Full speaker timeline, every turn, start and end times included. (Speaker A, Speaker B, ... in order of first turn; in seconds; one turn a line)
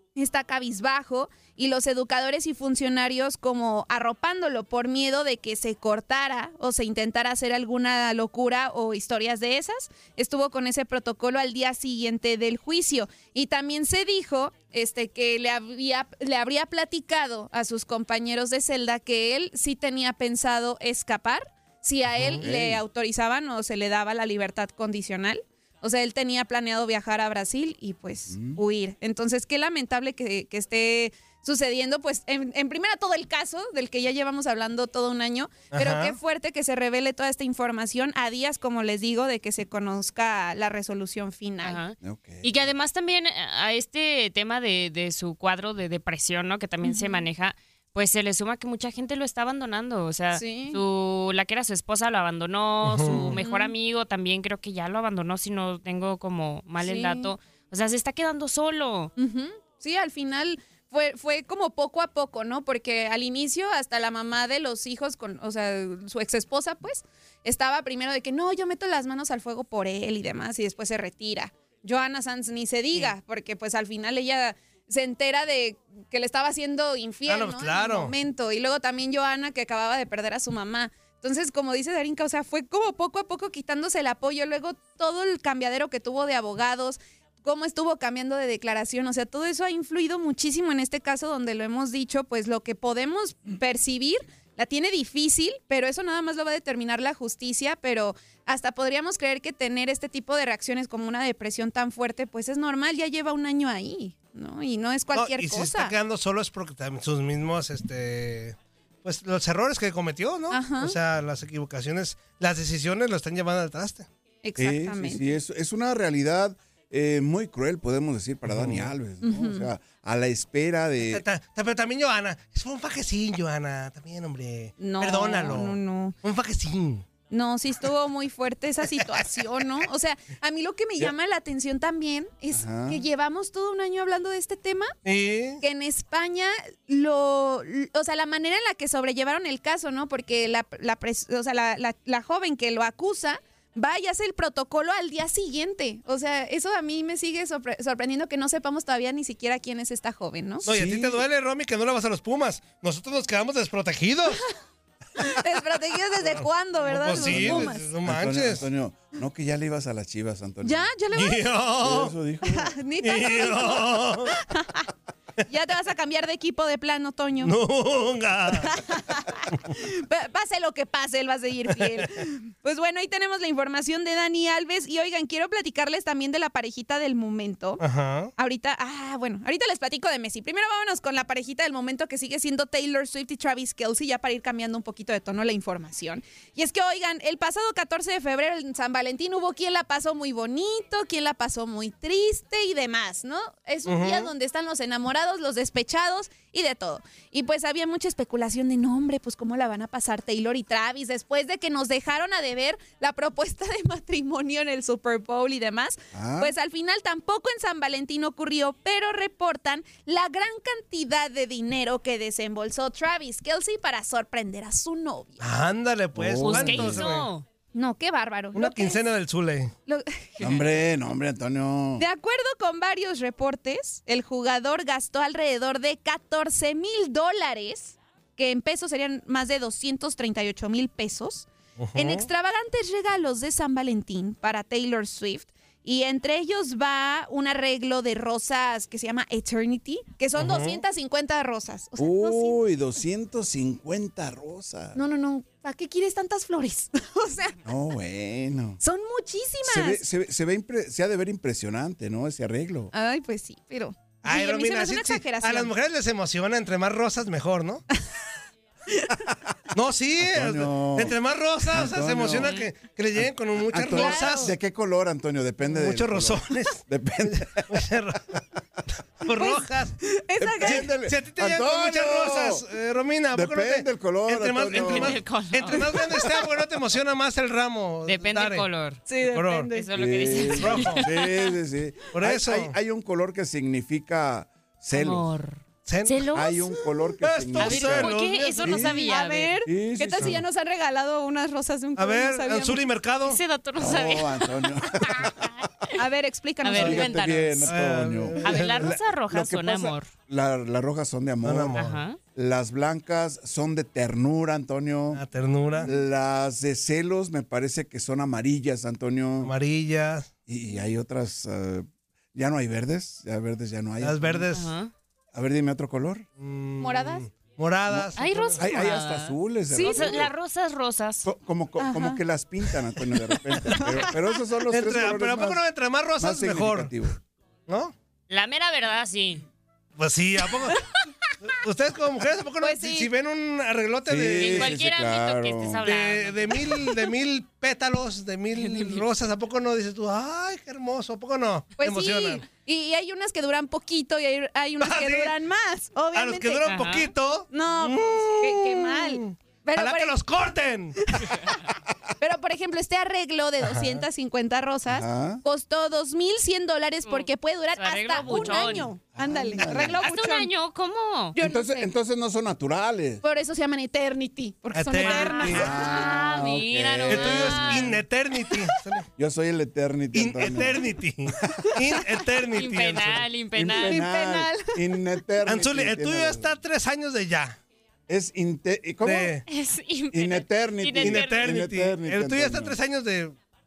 Speaker A: 0.1-41.8
Speaker B: 22.2-22.4
Speaker C: 22.2-22.8
Speaker C: 28.3-28.6
Speaker B: 35.7-36.2
Speaker D: 41.6-59.1
Speaker C: 42.0-42.5
Speaker A: 46.8-47.2
Speaker A: 50.3-50.8
Speaker B: 52.8-53.4
Speaker A: 53.1-53.7
Speaker A: 56.8-57.3
Speaker A: 59.1-105.9
Speaker B: 77.3-78.1
Speaker B: 105.1-114.1
Speaker A: 110.5-111.0
Speaker A: 114.4-115.3
Speaker C: 114.6-121.2
Speaker B: 118.5-118.9
Speaker A: 119.2-119.7
Speaker B: 121.1-127.0
Speaker A: 124.8-126.1
Speaker A: 127.3-134.9
Speaker C: 132.5-133.0
Speaker B: 135.0-135.6
Speaker A: 135.6-150.7
Speaker C: 150.6-151.2
Speaker B: 150.6-154.4
Speaker A: 155.2-157.8
Speaker B: 156.2-158.7
Speaker C: 157.1-160.9
Speaker A: 160.6-161.6
Speaker B: 161.1-162.1
Speaker C: 161.8-162.7
Speaker A: 162.4-164.9
Speaker B: 163.0-164.3
Speaker A: 165.5-167.5
Speaker B: 167.4-168.8
Speaker A: 168.5-177.8
Speaker B: 177.8-178.3
Speaker A: 178.4-215.5
Speaker B: 193.8-194.3
Speaker C: 206.1-206.5
Speaker B: 215.4-217.3
Speaker C: 216.1-217.0
Speaker D: 216.4-217.4
Speaker A: 217.7-219.0
Speaker B: 218.5-219.7
Speaker A: 219.9-220.6
Speaker C: 220.4-222.0
Speaker A: 222.0-242.6
Speaker B: 231.8-232.3
Speaker B: 240.3-240.8
Speaker C: 242.0-245.0
Speaker A: 244.9-247.6
Speaker C: 247.6-248.8
Speaker A: 248.8-250.0
Speaker C: 249.6-252.9
Speaker A: 252.9-255.7
Speaker B: 254.2-257.8
Speaker A: 258.9-259.2
Speaker B: 259.7-264.5
Speaker C: 260.2-261.1
Speaker C: 261.7-262.6
Speaker C: 263.1-267.8
Speaker A: 263.9-264.5
Speaker B: 265.6-268.4
Speaker B: 269.2-270.0
Speaker A: 269.3-270.9
Speaker C: 270.4-272.6
Speaker B: 270.6-278.7
Speaker C: 273.3-275.2
Speaker D: 274.7-275.9
Speaker A: 276.0-276.4
Speaker D: 278.1-279.0
Speaker A: 279.1-279.9
Speaker B: 279.2-279.7
Speaker D: 279.7-281.1
Speaker C: 279.9-285.3
Speaker B: 280.5-281.1
Speaker B: 282.1-282.7
Speaker D: 284.9-286.6
Speaker B: 285.9-286.2
Speaker C: 286.3-289.1
Speaker B: 287.2-289.1
Speaker D: 287.6-289.6
Speaker A: 289.0-292.8
Speaker C: 289.6-290.4
Speaker B: 292.0-293.4
Speaker D: 293.2-294.5
Speaker C: 293.8-295.6
Speaker D: 295.0-295.5
Speaker A: 295.9-297.1
Speaker D: 296.6-297.7
Speaker C: 296.7-301.8
Speaker B: 296.8-297.0
Speaker B: 297.6-298.9
Speaker D: 298.4-300.1
Speaker B: 301.4-302.0
Speaker D: 301.8-302.2
Speaker C: 302.4-305.2
Speaker B: 305.1-305.9
Speaker C: 305.9-309.5
Speaker B: 309.4-310.3
Speaker C: 310.5-314.5
Speaker B: 314.0-314.7
Speaker D: 314.5-314.9
Speaker C: 315.3-316.2
Speaker B: 316.4-318.6
Speaker A: 316.8-317.2
Speaker C: 317.9-320.3
Speaker D: 318.2-321.2
Speaker A: 319.7-320.2
Speaker C: 321.2-325.6
Speaker A: 321.8-322.2
Speaker A: 323.7-324.1
Speaker B: 324.7-326.9
Speaker C: 326.2-327.2
Speaker B: 327.7-327.9
Speaker D: 328.3-329.4
Speaker B: 330.0-330.8
Speaker B: 331.4-334.7
Speaker A: 332.6-333.1
Speaker C: 334.1-335.8
Speaker D: 334.4-336.7
Speaker B: 335.8-342.4
Speaker D: 338.6-339.0
Speaker A: 341.8-346.8
Speaker B: 344.8-345.3
Speaker B: 346.1-351.3
Speaker D: 346.6-347.1
Speaker A: 347.5-350.2
Speaker A: 351.1-351.5
Speaker A: 352.2-360.5
Speaker B: 353.6-354.0
Speaker C: 354.9-355.4
Speaker D: 357.0-358.9
Speaker C: 358.3-358.6
Speaker C: 359.2-360.0
Speaker D: 360.0-361.4
Speaker A: 361.3-361.9
Speaker C: 361.4-363.2
Speaker A: 363.2-366.1
Speaker B: 364.7-365.7
Speaker D: 365.0-367.9
Speaker C: 365.4-368.0
Speaker B: 367.1-369.1
Speaker C: 369.2-370.9
Speaker B: 370.1-373.3
Speaker D: 372.5-374.0
Speaker C: 373.6-376.5
Speaker A: 373.9-375.0
Speaker B: 375.4-377.6
Speaker C: 378.1-379.4
Speaker B: 379.0-379.4
Speaker D: 379.5-381.5
Speaker C: 380.1-382.8
Speaker B: 381.0-383.4